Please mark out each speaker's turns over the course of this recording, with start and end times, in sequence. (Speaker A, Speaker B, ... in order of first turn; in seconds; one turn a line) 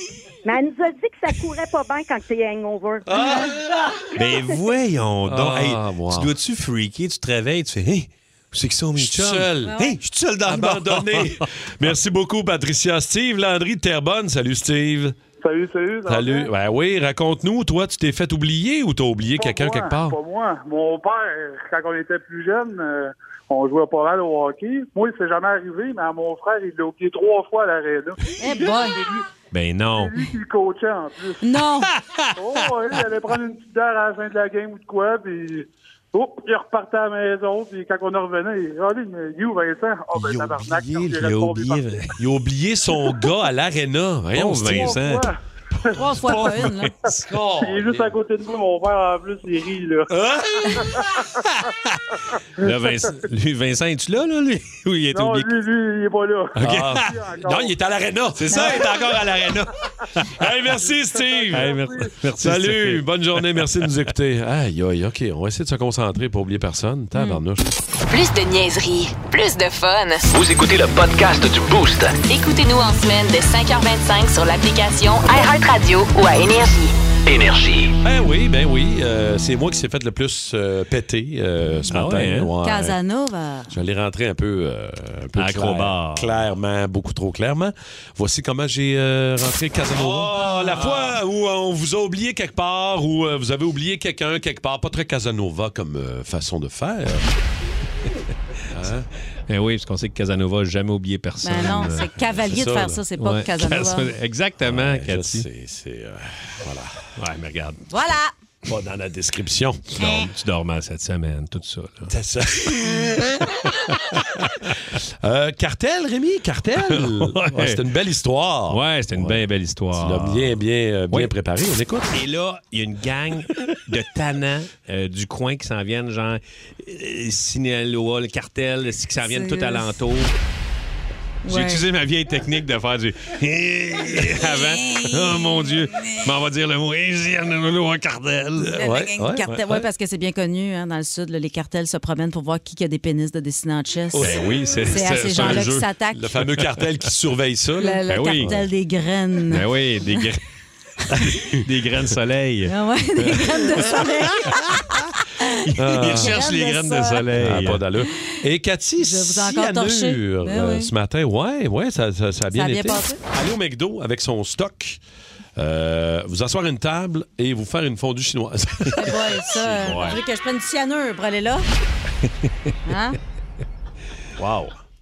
Speaker A: 0.5-3.2
Speaker B: 3.1-4.1
Speaker C: 4.1-11.4
Speaker B: 5.3-6.3
Speaker B: 8.9-9.9
Speaker D: 9.7-9.9
Speaker B: 10.4-15.2
Speaker E: 15.4-16.5
Speaker B: 16.1-20.2
Speaker E: 19.4-29.3
Speaker D: 28.4-29.0
Speaker C: 29.5-30.3
Speaker E: 29.9-31.4
Speaker D: 31.4-31.9
Speaker C: 31.8-33.1
Speaker E: 32.4-41.8
Speaker B: 40.1-41.2
Speaker C: 41.1-42.1
Speaker B: 42.2-45.0
Speaker C: 44.3-45.3
Speaker E: 44.6-45.9
Speaker D: 45.9-46.9
Speaker C: 46.0-47.2
Speaker B: 47.3-48.2
Speaker E: 47.6-50.1
Speaker B: 50.1-50.9
Speaker E: 50.6-51.0
Speaker C: 51.5-52.0
Speaker C: 52.6-55.5
Speaker E: 55.1-57.7
Speaker B: 56.5-59.6
Speaker C: 56.6-57.1
Speaker C: 58.4-60.3
Speaker B: 60.4-67.6
Speaker E: 61.1-62.1
Speaker C: 61.5-63.9
Speaker D: 67.1-67.4
Speaker F: 68.1-70.2
Speaker G: 70.3-72.2
Speaker F: 72.2-77.0
Speaker G: 77.3-78.0
Speaker B: 78.0-83.0
Speaker C: 81.9-82.5
Speaker D: 82.6-83.7
Speaker B: 83.7-97.3
Speaker C: 85.4-86.3
Speaker C: 90.0-91.2
Speaker D: 90.3-90.8
Speaker B: 98.7-99.1
Speaker C: 99.5-102.1
Speaker D: 101.4-104.1
Speaker B: 102.5-103.0
Speaker C: 103.2-105.5
Speaker B: 104.6-107.0
Speaker C: 107.2-107.8
Speaker D: 107.9-108.3
Speaker B: 108.7-110.0
Speaker C: 110.0-112.1
Speaker D: 110.0-110.3
Speaker B: 112.1-113.2
Speaker B: 115.2-122.1
Speaker C: 116.9-117.8
Speaker C: 118.7-120.5
Speaker C: 122.1-130.3
Speaker D: 129.2-129.9
Speaker D: 131.4-131.8
Speaker C: 131.4-138.8
Speaker D: 134.8-135.4
Speaker B: 138.6-139.4
Speaker D: 138.8-146.2
Speaker B: 144.1-144.4
Speaker C: 144.2-145.8
Speaker B: 145.3-148.6
Speaker D: 147.8-149.7
Speaker C: 148.1-148.5
Speaker C: 149.5-150.4
Speaker C: 151.6-152.7
Speaker D: 152.7-157.3
Speaker C: 153.3-153.6
Speaker C: 155.7-157.8
Speaker B: 155.8-156.4
Speaker B: 157.3-165.0
Speaker D: 159.0-160.9
Speaker D: 162.5-163.2
Speaker B: 165.6-169.2
Speaker C: 168.9-170.2
Speaker D: 169.0-171.7
Speaker C: 172.5-172.7
Speaker D: 172.9-173.2
Speaker B: 174.4-174.7